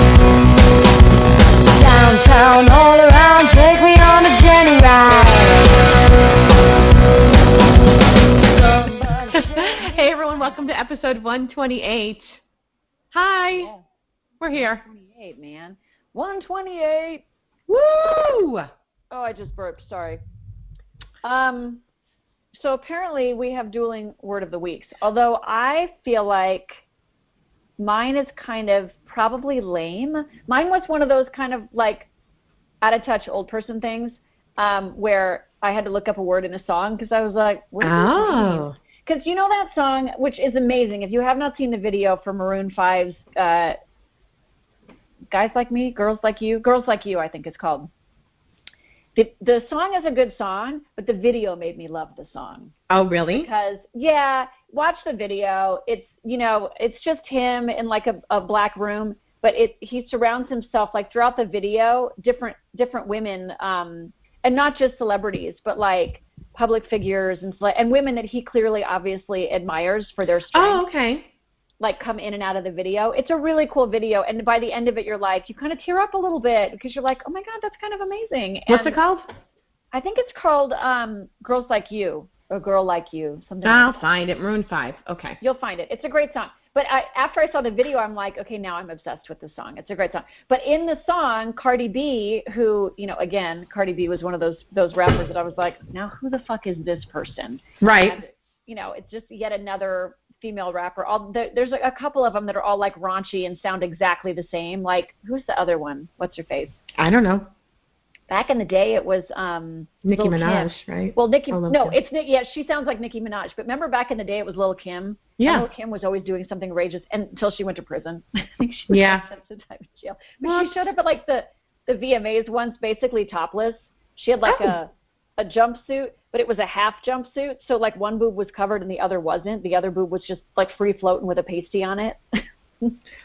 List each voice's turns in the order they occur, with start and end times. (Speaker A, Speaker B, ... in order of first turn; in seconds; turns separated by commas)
Speaker A: 1.7-5.8, Speaker A: 8.4-10.1, Speaker B: 9.3-12.4, Speaker B: 13.1-13.7, Speaker C: 13.6-13.8, Speaker B: 14.4-14.8, Speaker C: 14.5-17.2, Speaker B: 17.7-18.7, Speaker C: 19.1-20.2, Speaker C: 21.2-21.8, Speaker C: 22.6-26.8, Speaker C: 27.8-32.1, Speaker C: 32.8-43.8, Speaker B: 37.8-38.8, Speaker C: 45.3-47.9, Speaker C: 49.2-52.7, Speaker B: 52.9-53.5, Speaker C: 53.4-70.8, Speaker B: 70.5-71.3, Speaker C: 71.8-79.0, Speaker B: 78.7-79.3, Speaker C: 79.9-84.0, Speaker B: 83.6-85.4, Speaker C: 85.4-106.8, Speaker B: 97.8-98.2, Speaker B: 107.0-107.5, Speaker C: 108.3-132.2, Speaker B: 110.0-112.0, Speaker B: 115.4-115.7, Speaker B: 118.9-119.2, Speaker B: 120.4-120.8, Speaker B: 124.5-124.7